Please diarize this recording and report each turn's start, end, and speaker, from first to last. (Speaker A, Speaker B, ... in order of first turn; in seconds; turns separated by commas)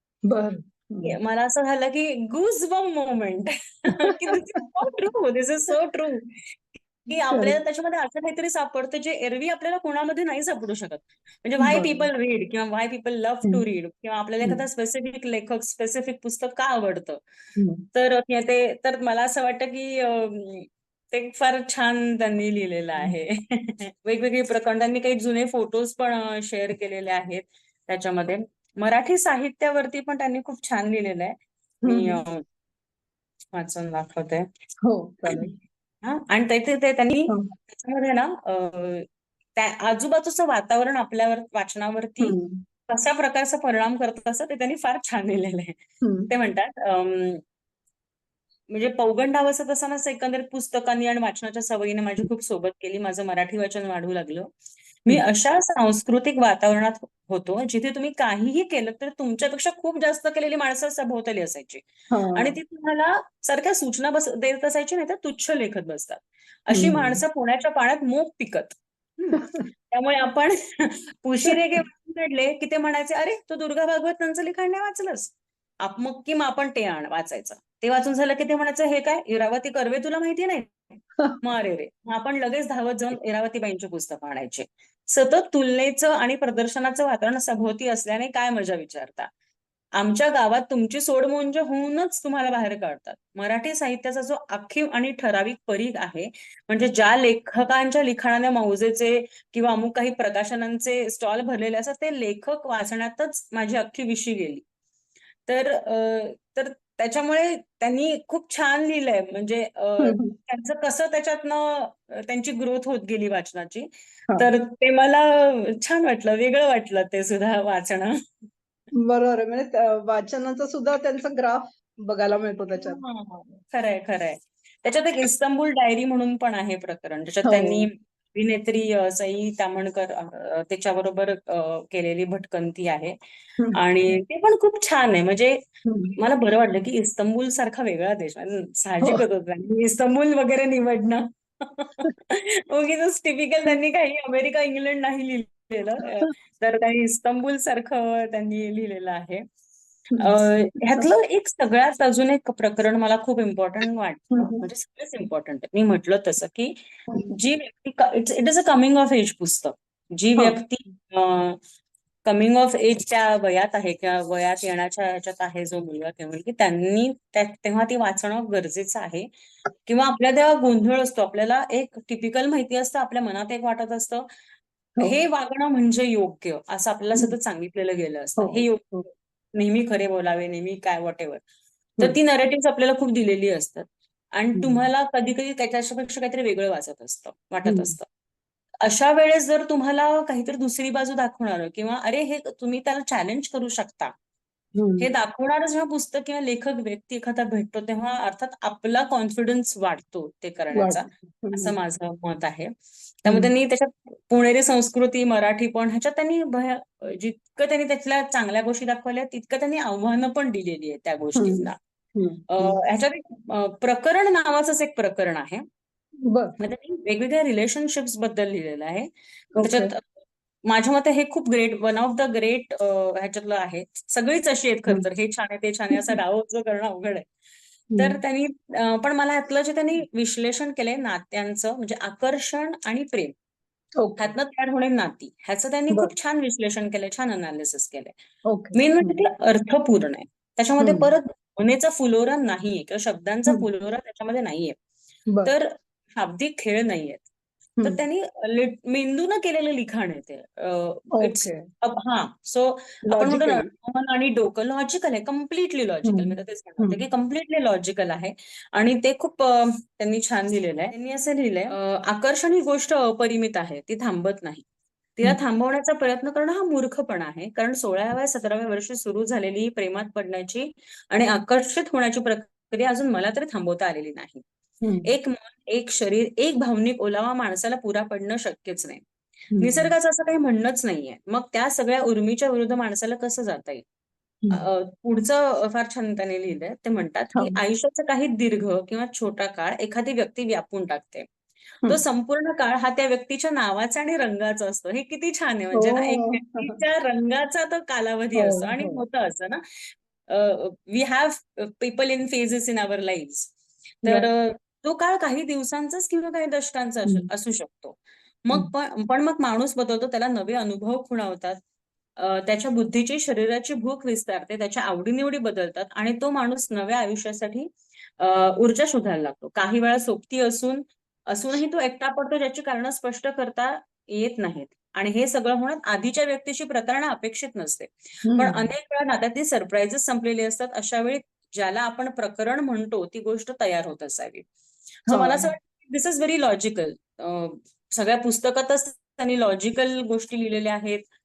Speaker A: 0.2-1.1, Speaker B: 1.0-17.2, Speaker A: 4.1-4.3, Speaker A: 7.3-7.5, Speaker A: 11.6-12.1, Speaker A: 17.6-17.9, Speaker B: 17.9-32.4, Speaker A: 31.8-32.2, Speaker B: 33.5-34.5, Speaker A: 34.8-35.5, Speaker B: 36.0-42.4, Speaker A: 42.2-42.6, Speaker B: 42.9-47.4, Speaker A: 46.0-46.3, Speaker B: 48.7-54.5, Speaker B: 55.0-68.8, Speaker A: 62.1-62.5, Speaker A: 66.7-67.2, Speaker A: 69.2-69.7, Speaker B: 69.9-80.8, Speaker B: 81.4-89.3, Speaker B: 90.0-104.6, Speaker B: 105.5-118.2, Speaker A: 110.0-110.3, Speaker A: 118.9-123.0, Speaker B: 122.7-133.1, Speaker A: 127.4-127.9, Speaker B: 133.7-135.6, Speaker A: 135.8-136.2, Speaker B: 136.2-149.4, Speaker B: 150.2-161.6, Speaker A: 154.3-154.6, Speaker B: 162.2-169.3, Speaker B: 169.8-174.3, Speaker B: 175.0-178.9, Speaker A: 178.4-179.1, Speaker B: 179.5-181.4, Speaker B: 182.0-188.0, Speaker A: 184.6-184.8, Speaker A: 187.7-187.9, Speaker B: 188.8-194.1, Speaker A: 194.8-195.1, Speaker B: 195.0-202.7, Speaker A: 200.7-201.7, Speaker B: 203.2-211.8, Speaker A: 211.3-212.8, Speaker B: 212.5-215.6, Speaker A: 216.2-216.6, Speaker B: 216.6-220.0, Speaker A: 219.5-219.9, Speaker B: 220.7-227.2, Speaker B: 228.0-233.3, Speaker A: 234.0-234.3, Speaker B: 234.2-238.1, Speaker A: 238.5-239.2, Speaker B: 238.7-244.8, Speaker A: 240.8-241.1, Speaker A: 245.3-245.5, Speaker B: 245.4-247.2, Speaker B: 247.8-264.6, Speaker A: 251.1-251.6, Speaker A: 253.1-253.7, Speaker A: 256.0-257.0, Speaker B: 265.1-274.4, Speaker A: 274.8-275.1, Speaker B: 275.0-279.0, Speaker A: 279.5-279.9, Speaker B: 279.6-283.8, Speaker B: 284.5-291.2, Speaker B: 291.9-311.6, Speaker A: 295.7-296.7, Speaker A: 298.4-299.0, Speaker B: 312.2-334.5, Speaker A: 328.2-328.7, Speaker A: 335.1-335.4, Speaker B: 335.1-341.0